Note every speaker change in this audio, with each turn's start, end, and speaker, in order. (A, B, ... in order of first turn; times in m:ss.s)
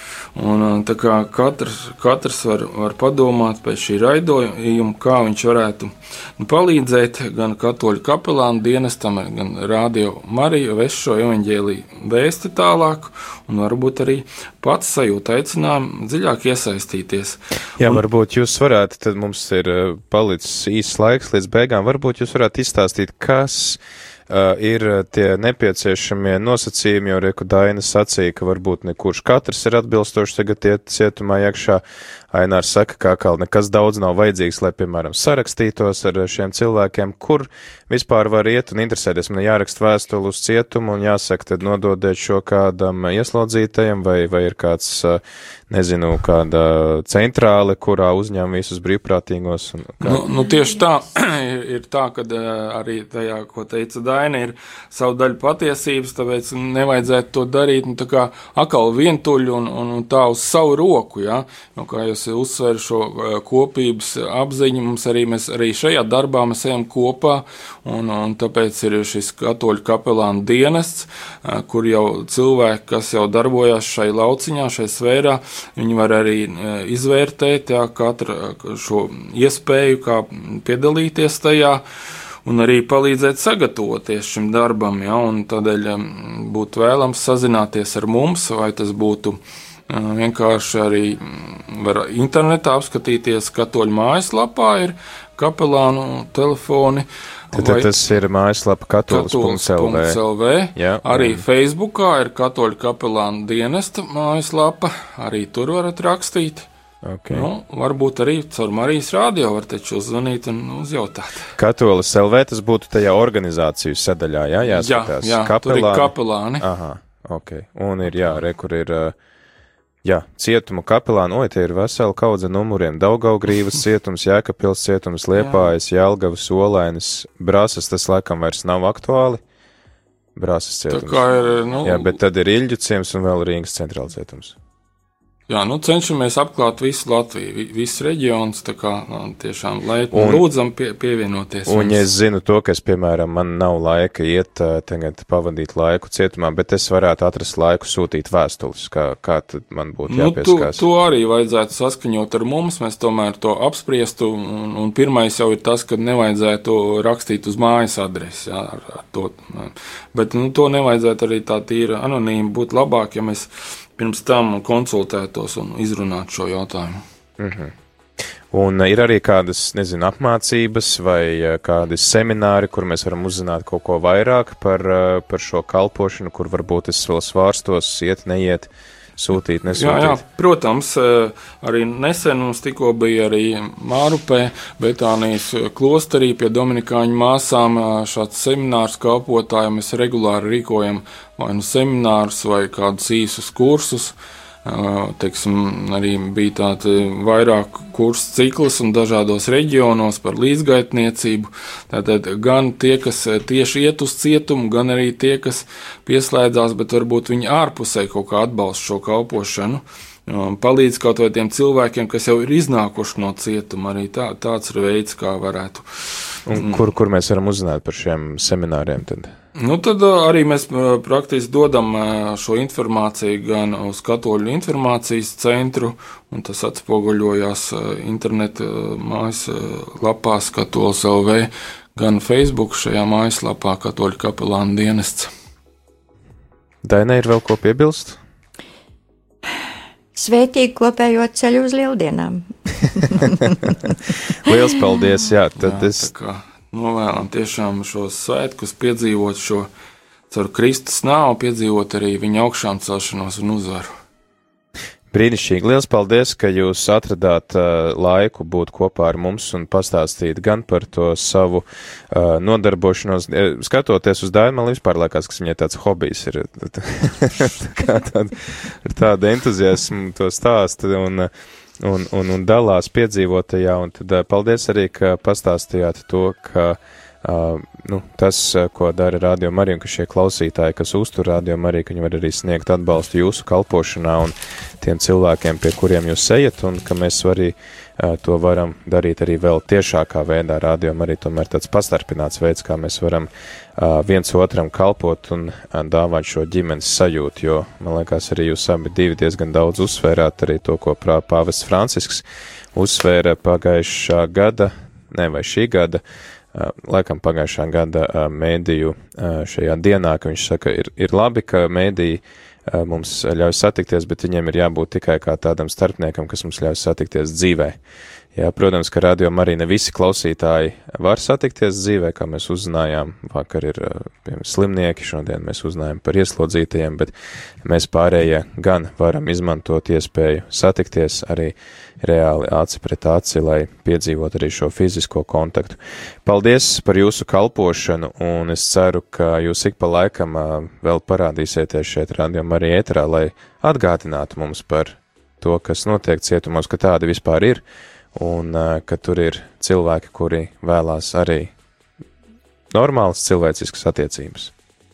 0:00.4-0:18.0 A
0:17.8-0:50.2 B
0:50.0-1:21.8 A
1:22.4-1:37.9 A
1:37.5-1:40.2 B
1:39.1-1:46.7 A
1:40.8-1:41.4 B
1:47.0-1:47.5 B
1:47.3-1:51.5 A
1:51.6-1:59.2 B
1:54.6-1:56.7 A
2:00.0-2:09.4 B
2:05.4-2:05.7 A
2:10.4-2:11.2 B
2:10.9-2:12.1 A
2:11.8-2:14.6 B
2:15.5-2:22.1 A
2:20.1-2:20.4 B
2:21.7-2:30.8 B
2:30.1-2:47.0 A
2:47.4-2:47.7 B
2:48.5-3:00.2 B
2:59.7-3:36.8 A
3:36.5-3:39.3 B
3:39.6-3:55.3 A
3:56.8-3:58.2 B
4:00.1-4:03.6 C
4:04.4-4:06.1 B
4:05.6-4:09.7 A
4:10.3-4:13.9 A
4:15.1-5:02.2 B
5:02.7-5:06.0 B
5:06.5-5:17.8 B
5:18.3-5:27.1 B
5:27.6-5:51.5 B
5:52.7-5:54.5 B